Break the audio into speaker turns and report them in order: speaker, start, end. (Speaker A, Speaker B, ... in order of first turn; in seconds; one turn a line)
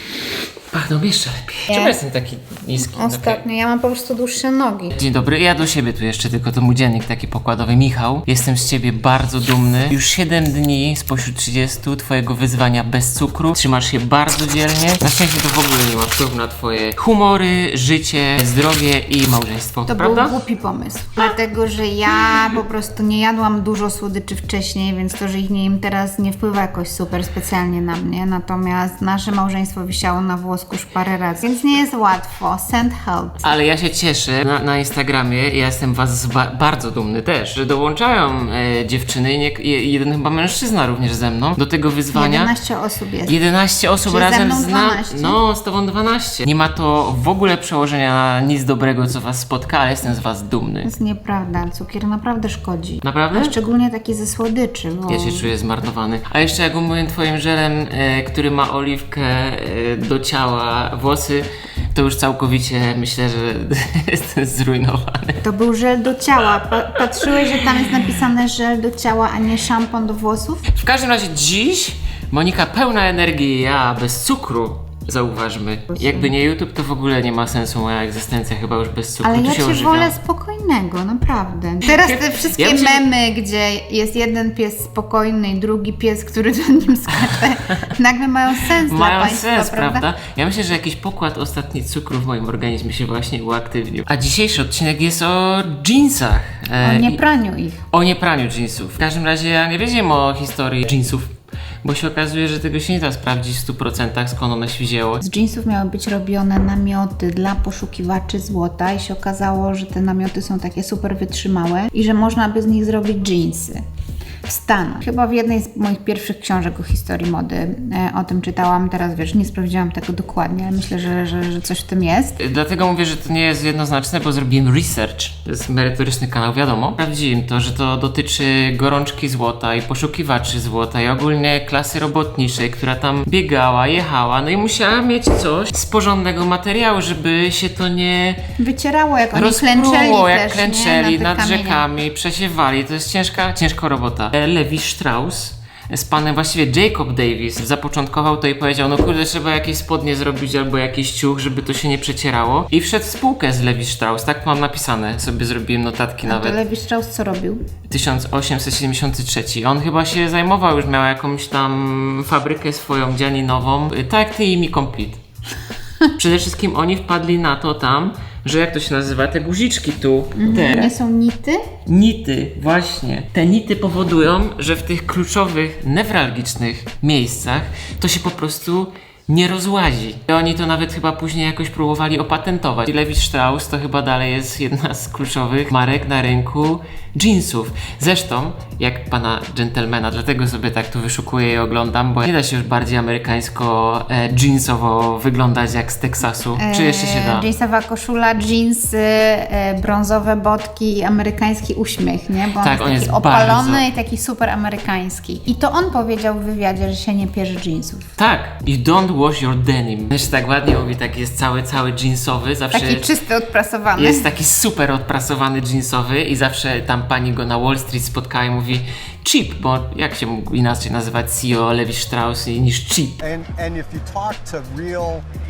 Speaker A: 0.7-3.4
Speaker B: 1.7-2.0
Speaker B: 2.8-4.9
Speaker A: 4.9-20.4
Speaker B: 19.9-33.5
Speaker A: 33.4-42.5
Speaker B: 42.1-43.4
Speaker A: 43.3-50.9
Speaker B: 44.0-45.4
Speaker B: 50.8-55.5
Speaker A: 53.0-53.5
Speaker A: 55.1-65.4
Speaker B: 65.4-70.7
Speaker A: 67.2-67.6
Speaker A: 70.7-80.2
Speaker B: 75.9-76.3
Speaker B: 79.2-90.1
Speaker A: 81.8-83.0
Speaker A: 88.8-97.2
Speaker B: 96.8-97.8
Speaker A: 97.9-101.3
Speaker A: 101.8-105.2
Speaker B: 105.2-113.8
Speaker B: 114.5-122.3
Speaker A: 122.4-138.4
Speaker B: 138.6-141.8
Speaker A: 139.3-156.6
Speaker B: 156.2-157.6
Speaker A: 157.9-165.2
Speaker A: 166.2-170.9
Speaker B: 170.3-171.6
Speaker A: 171.8-197.5
Speaker B: 196.5-208.1
Speaker A: 202.6-203.8
Speaker A: 208.2-213.1
Speaker B: 212.7-214.3
Speaker A: 213.9-223.2
Speaker C: 223.2-225.2